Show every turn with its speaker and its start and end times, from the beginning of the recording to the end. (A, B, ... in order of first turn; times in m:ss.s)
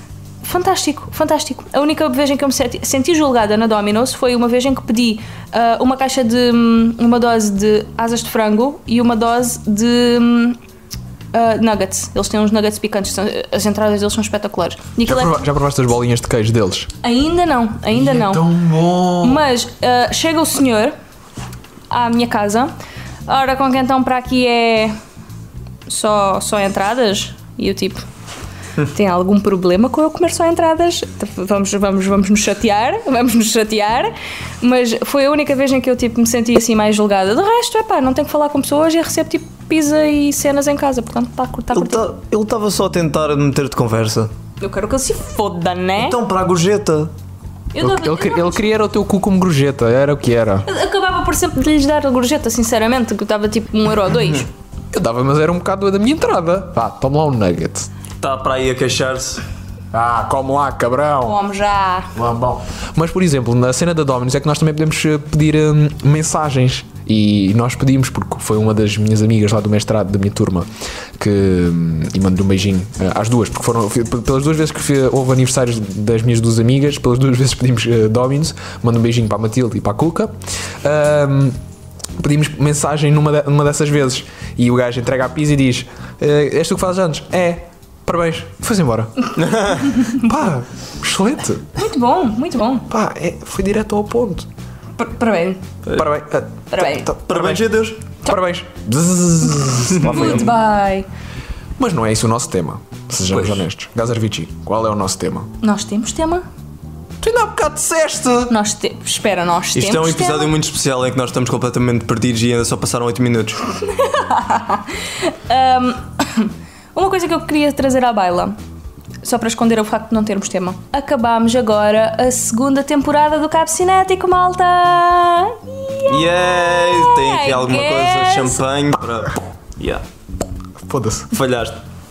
0:00.4-0:10.6 A
0:11.3-0:15.4 A
0:15.0-0:16.9 B
0:17.0-0:18.4 A
0:17.9-0:19.4 B
0:19.2-0:20.9 A
0:21.9-0:22.7 A
0:23.2-0:24.9 A
0:25.9-0:28.0 A
0:28.8-0:42.0 A
0:41.7-0:44.3 C
0:44.6-0:46.2 A
0:46.0-0:47.1 C
0:47.7-0:48.6 A
0:47.8-0:50.7 B
0:50.6-0:54.5 A
0:54.9-0:57.9 B
0:58.2-0:59.4 C
0:59.9-1:01.4 B
1:01.2-1:02.1 A
1:02.1-1:21.6 B
1:22.2-1:29.3 B
1:29.4-1:29.9 C
1:29.9-1:31.7 B
1:31.8-1:32.9 A
1:32.9-1:34.5 B
1:35.0-1:35.6 A
1:35.9-1:40.6 B
1:36.7-1:37.1 A
1:37.3-1:38.0 C
1:39.9-1:40.5 C
1:40.1-1:41.1 A
1:41.8-1:45.5 B
1:45.6-1:46.4 A
1:47.2-1:48.5 B
1:48.5-1:50.5 A
1:49.7-1:53.6 C
1:53.8-1:58.5 A
1:59.2-2:08.6 A
2:06.0-2:10.0 C
2:10.8-2:11.3 B
2:11.3-2:11.8 C